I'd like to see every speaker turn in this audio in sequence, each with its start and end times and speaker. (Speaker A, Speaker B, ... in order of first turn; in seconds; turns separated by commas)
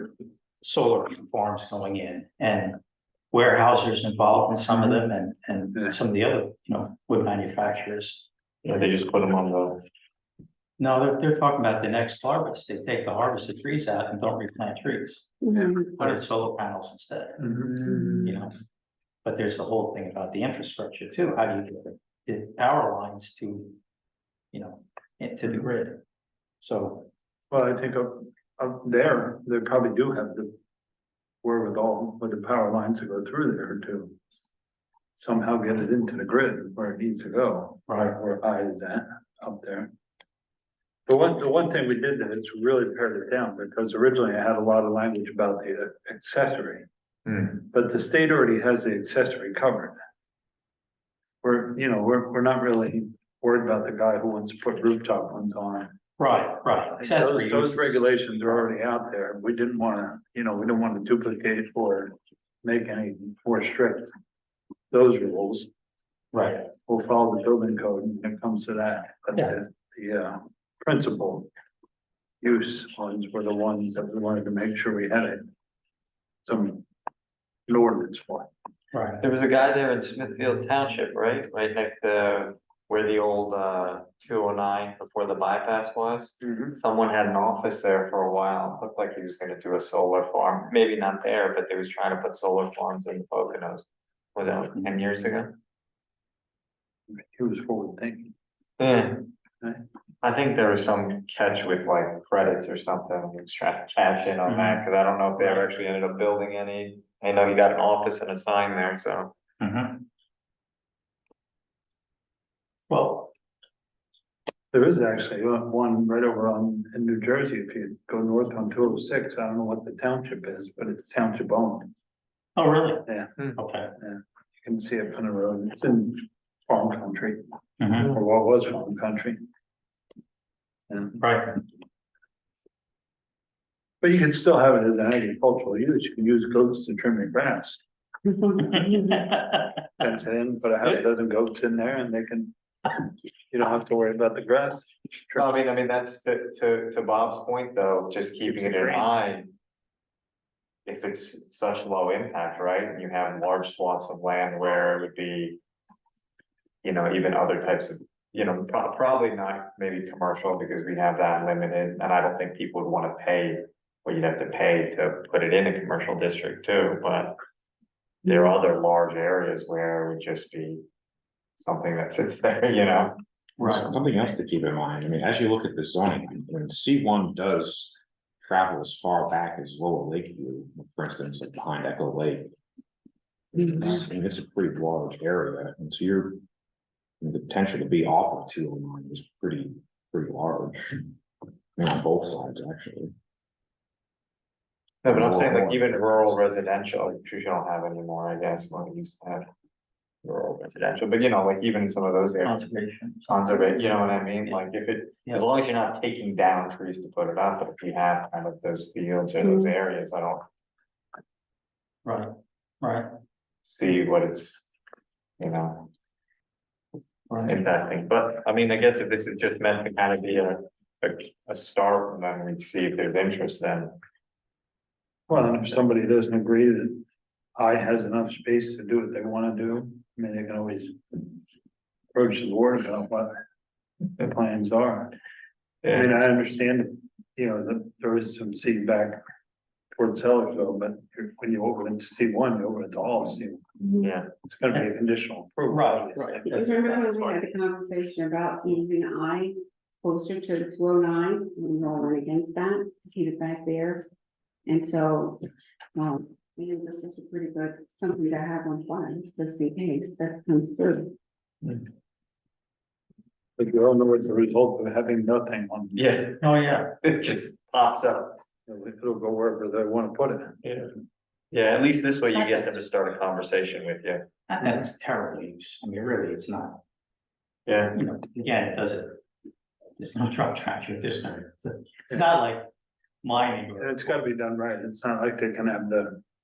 Speaker A: 0.6-2.8, Speaker A: 3.3-8.8, Speaker B: 4.7-5.0, Speaker C: 8.6-9.8, Speaker A: 10.8-17.5, Speaker D: 15.4-15.9, Speaker B: 17.4-17.8, Speaker C: 17.7-18.4, Speaker A: 18.2-18.5, Speaker A: 19.2-23.8, Speaker A: 24.5-26.0, Speaker A: 26.6-27.1, Speaker B: 27.5-30.6, Speaker B: 31.4-34.2, Speaker B: 35.2-39.9, Speaker A: 37.9-38.2, Speaker B: 41.1-46.9, Speaker C: 47.3-47.6, Speaker B: 47.6-50.0, Speaker B: 51.4-55.9, Speaker A: 56.2-58.0, Speaker B: 57.0-64.1, Speaker B: 64.9-65.7, Speaker A: 66.3-66.7, Speaker B: 66.9-71.5, Speaker B: 72.4-75.4, Speaker B: 76.4-76.8, Speaker B: 77.7-78.5, Speaker A: 78.9-79.2, Speaker C: 79.2-95.6, Speaker B: 86.4-86.8, Speaker B: 97.1-98.3, Speaker C: 98.8-99.3, Speaker C: 100.2-109.3, Speaker A: 104.5-104.9, Speaker A: 109.6-110.0, Speaker A: 112.9-113.3, Speaker B: 114.7-121.9, Speaker A: 122.6-123.9, Speaker B: 123.1-123.3, Speaker B: 124.0-127.4, Speaker A: 127.8-128.2, Speaker B: 128.0-129.4, Speaker B: 130.9-131.2, Speaker A: 131.2-131.6, Speaker B: 134.0-137.8, Speaker D: 138.3-139.4, Speaker A: 138.6-139.8, Speaker B: 140.0-142.5, Speaker B: 143.5-145.5, Speaker C: 145.4-149.5, Speaker C: 150.9-155.6, Speaker C: 156.8-167.4, Speaker C: 168.2-170.8, Speaker C: 171.6-173.9, Speaker A: 173.6-173.9, Speaker E: 173.6-182.5, Speaker E: 183.5-186.4, Speaker E: 187.2-191.1, Speaker E: 191.8-193.1, Speaker C: 195.0-199.5, Speaker E: 195.1-196.3, Speaker C: 200.2-202.7, Speaker A: 202.4-204.6, Speaker C: 203.3-210.4, Speaker D: 209.4-209.7, Speaker A: 212.0-213.1, Speaker C: 213.7-214.7, Speaker C: 215.4-215.9, Speaker A: 217.3-217.6, Speaker C: 217.4-224.0, Speaker B: 225.3-227.0, Speaker B: 227.6-231.3, Speaker B: 232.1-233.3, Speaker B: 234.2-235.1, Speaker B: 235.8-239.2, Speaker B: 239.9-243.7, Speaker D: 243.8-244.1, Speaker C: 244.0-244.3, Speaker B: 244.4-246.4, Speaker A: 245.7-247.0, Speaker C: 246.3-247.4, Speaker D: 246.4-254.1, Speaker D: 254.7-255.4, Speaker D: 255.9-261.1, Speaker B: 263.6-266.1, Speaker C: 265.9-268.4, Speaker A: 266.4-266.9, Speaker B: 268.7-270.6, Speaker C: 270.6-270.9, Speaker C: 271.5-274.2, Speaker A: 274.5-276.8, Speaker C: 277.7-278.0, Speaker A: 277.9-279.2, Speaker A: 280.0-282.7, Speaker A: 283.2-284.2, Speaker B: 283.8-286.2